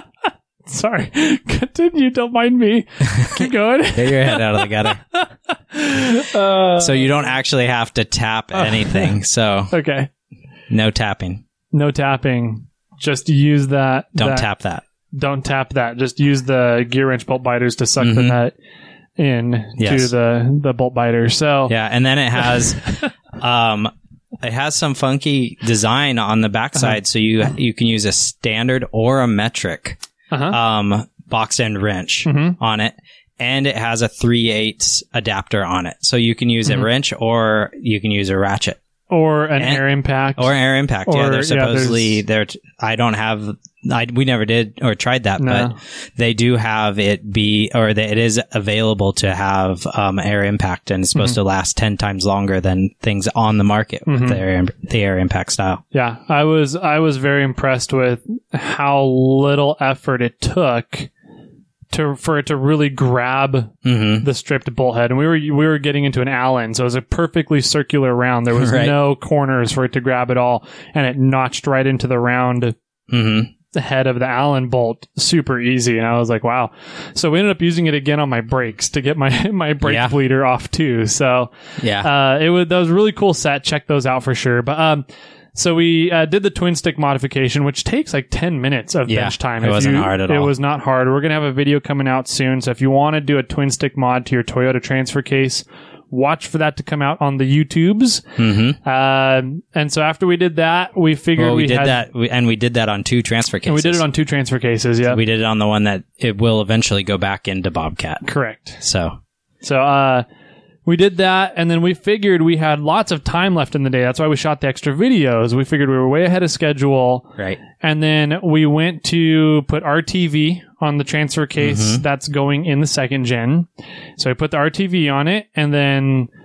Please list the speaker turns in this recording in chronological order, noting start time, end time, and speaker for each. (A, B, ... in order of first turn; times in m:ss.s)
0:00.7-0:07.2 A
0:03.2-0:05.0 B
0:06.8-0:09.7 B
0:08.5-0:09.1 A
0:09.7-0:10.1 A
0:10.7-0:11.4 B
0:11.7-0:14.5 A
0:14.2-0:14.8 B
0:15.1-0:18.5 A
0:18.0-0:18.4 B
0:19.2-0:21.8 A
0:19.8-0:20.1 B
0:21.7-0:22.8 B
0:22.4-0:23.1 A
0:23.4-0:30.0 B
0:30.3-0:30.6 A
0:30.5-0:38.8 B
0:32.2-0:32.6 A
0:39.1-0:40.5 A
0:39.6-0:39.8 B
0:40.4-0:55.8 B
0:41.1-0:42.2 A
0:45.4-0:45.7 A
0:54.1-0:54.4 A
0:55.9-1:01.1 A
1:01.9-1:12.8 A
1:03.8-1:04.3 B
1:08.5-1:09.0 B
1:13.1-1:13.5 B
1:13.7-1:42.0 A
1:19.8-1:20.1 B
1:21.8-1:22.1 B
1:29.1-1:30.5 B
1:38.4-1:38.8 B
1:41.4-1:44.0 B
1:43.7-1:45.2 A
1:45.1-1:48.2 B
1:48.2-1:48.8 A
1:48.8-1:49.2 B
1:49.6-1:50.2 A
1:50.9-2:06.3 A
2:01.6-2:02.0 B